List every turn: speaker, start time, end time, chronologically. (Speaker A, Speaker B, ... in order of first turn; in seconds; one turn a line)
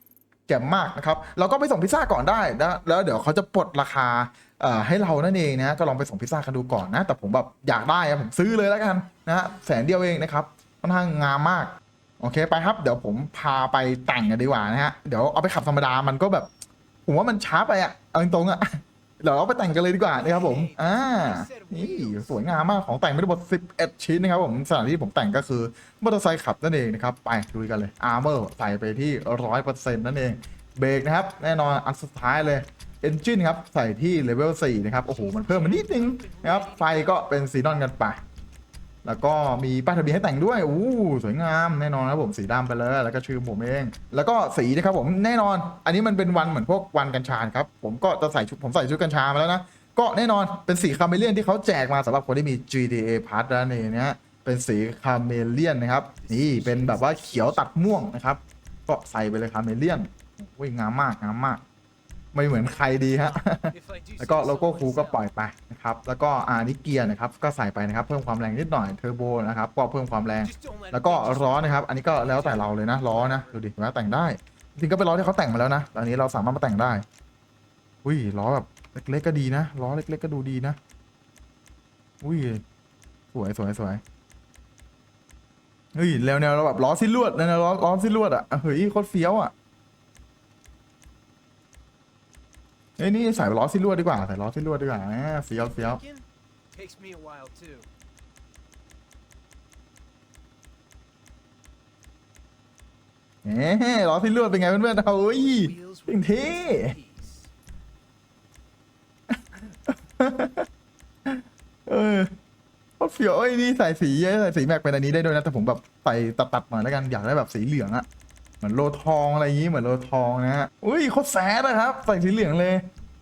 Speaker A: 0.5-16.5
Speaker A: 17.1-38.2
Speaker B: 20.1-22.4
Speaker B: 35.1-37.2
Speaker A: 39.0-61.6
Speaker B: 56.2-57.8
Speaker A: 62.3-77.0
Speaker B: 62.9-65.2
Speaker B: 70.4-73.5
Speaker A: 78.0-80.8
Speaker A: 82.2-82.6
Speaker A: 83.3-84.0
Speaker A: 85.9-89.5
Speaker A: 93.0-96.0
Speaker B: 95.7-97.9
Speaker A: 103.4-107.0
Speaker B: 105.3-107.5
Speaker A: 109.3-110.7
Speaker A: 111.2-112.3
Speaker A: 113.0-118.1
Speaker A: 118.6-122.9